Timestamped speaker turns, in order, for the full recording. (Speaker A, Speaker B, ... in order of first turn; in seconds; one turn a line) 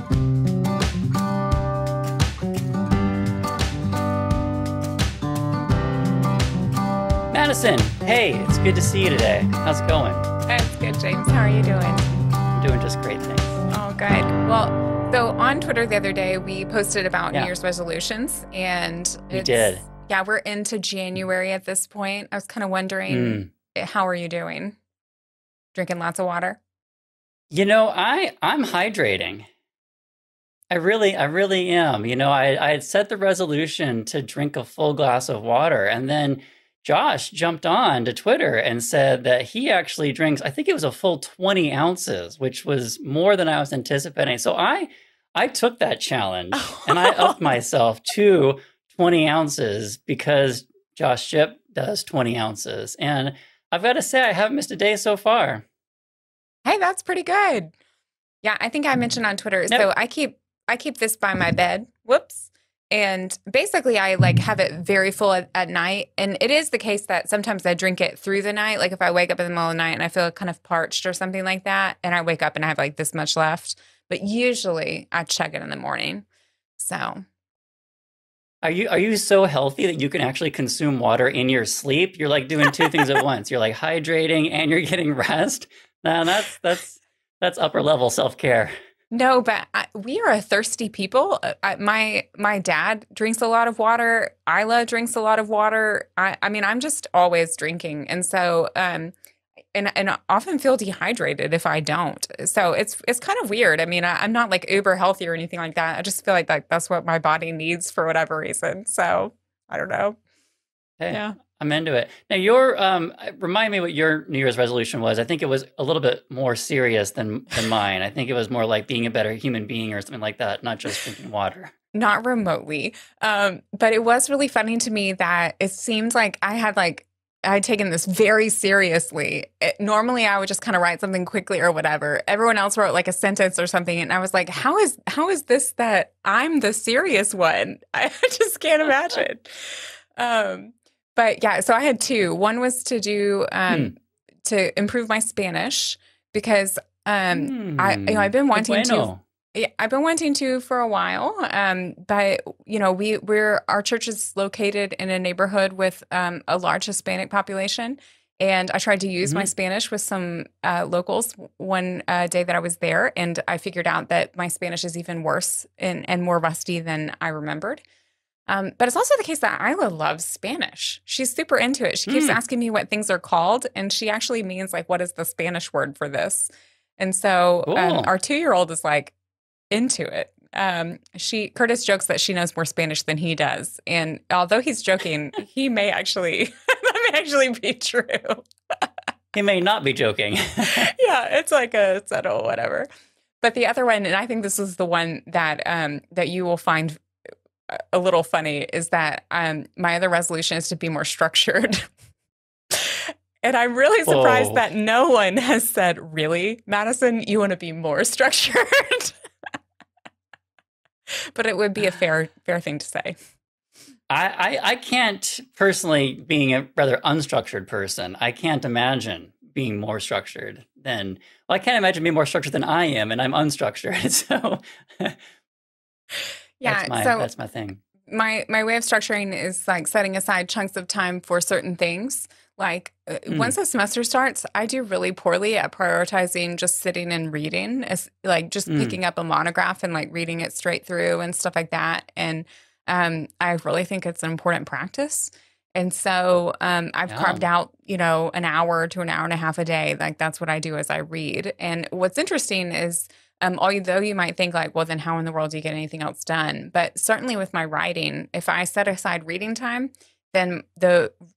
Speaker A: 7.3-10.3
Speaker B: 10.5-12.1
Speaker A: 12.5-13.6
Speaker B: 13.7-24.8
Speaker A: 19.3-19.9
Speaker A: 23.1-23.5
Speaker B: 25.7-26.6
Speaker A: 27.5-29.4
Speaker A: 30.7-55.6
Speaker B: 46.7-47.3
Speaker B: 56.6-57.7
Speaker B: 58.4-76.2
Speaker B: 76.8-77.2
Speaker A: 78.6-88.7
Speaker B: 89.1-99.1
Speaker B: 99.7-110.2
Speaker A: 111.0-121.7
Speaker B: 111.1-111.4
Speaker B: 121.9-167.8
Speaker A: 147.3-149.2
Speaker B: 168.5-179.1
Speaker A: 172.1-172.4
Speaker A: 177.7-178.1
Speaker B: 179.7-188.9
Speaker A: 189.3-190.9
Speaker B: 190.7-192.9
Speaker B: 193.4-197.0
Speaker B: 197.7-201.9
Speaker B: 202.7-209.1
Speaker A: 204.1-204.6
Speaker B: 211.3-213.2
Speaker A: 214.1-225.2
Speaker B: 226.6-227.3
Speaker A: 226.6-227.8
Speaker B: 228.1-261.1
Speaker A: 238.7-239.0
Speaker A: 247.1-247.4